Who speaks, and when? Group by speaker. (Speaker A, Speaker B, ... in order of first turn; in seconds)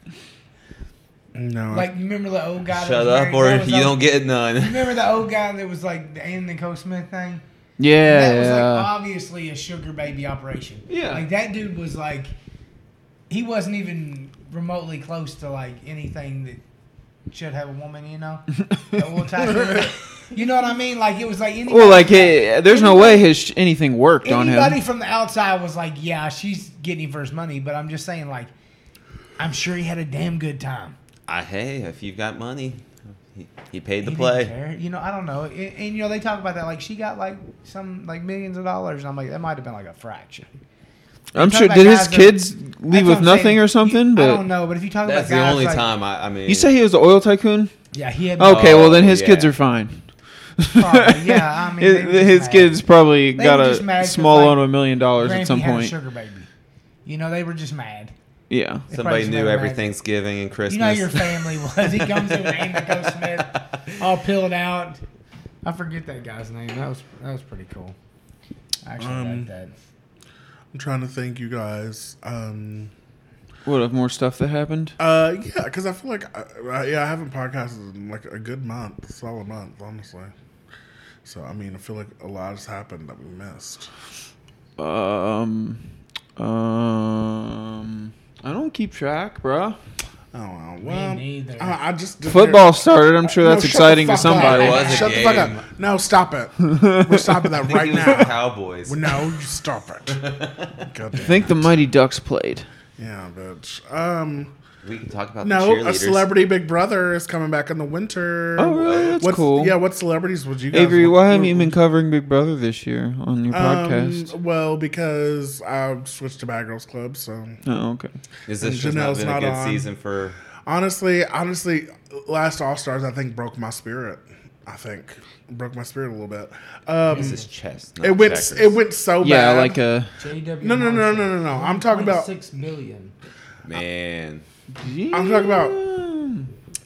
Speaker A: 1.3-1.9, 69.0-69.5, 70.7-72.9, 75.0-80.3, 81.2-83.9, 90.3-100.2, 100.8-101.7, 103.0-104.5, 105.4-111.8, 113.5-117.6, 118.6-119.9, 120.7-127.4, 128.0-129.8, 130.6-132.3, 135.1-135.8
Speaker B: 1.7-7.4, 8.0-12.3, 13.3-16.6, 17.3-23.3, 24.2-28.5, 29.4-31.0, 34.0-40.5, 41.4-45.9, 47.9-48.8, 50.7-52.8, 53.4-54.6, 55.2-56.5, 57.0-58.1, 58.9-59.9, 60.7-65.0, 65.6-68.0, 68.8-69.7, 90.8-91.8, 94.2-95.4, 127.1-127.4, 130.2-133.1
Speaker C: 2.7-5.0, 31.3-34.5, 45.0-46.7, 48.5-49.5, 58.9-61.5, 94.4-95.6, 97.6-99.1, 100.1-100.9, 104.8-106.3, 108.8-109.2, 118.5-120.4, 127.1-128.8, 133.6-134.4
Speaker D: 7.8-8.9, 10.9-11.2, 21.7-24.8, 41.3-44.4, 46.5-47.7, 48.4-50.0, 50.6-55.9, 58.5-58.8, 73.6-75.0, 84.8-85.8, 86.4-89.8, 92.2-94.9, 96.7-97.5, 101.2-102.7, 108.6-109.8, 110.7-114.3, 117.7-118.1, 129.2-130.1, 134.7-136.5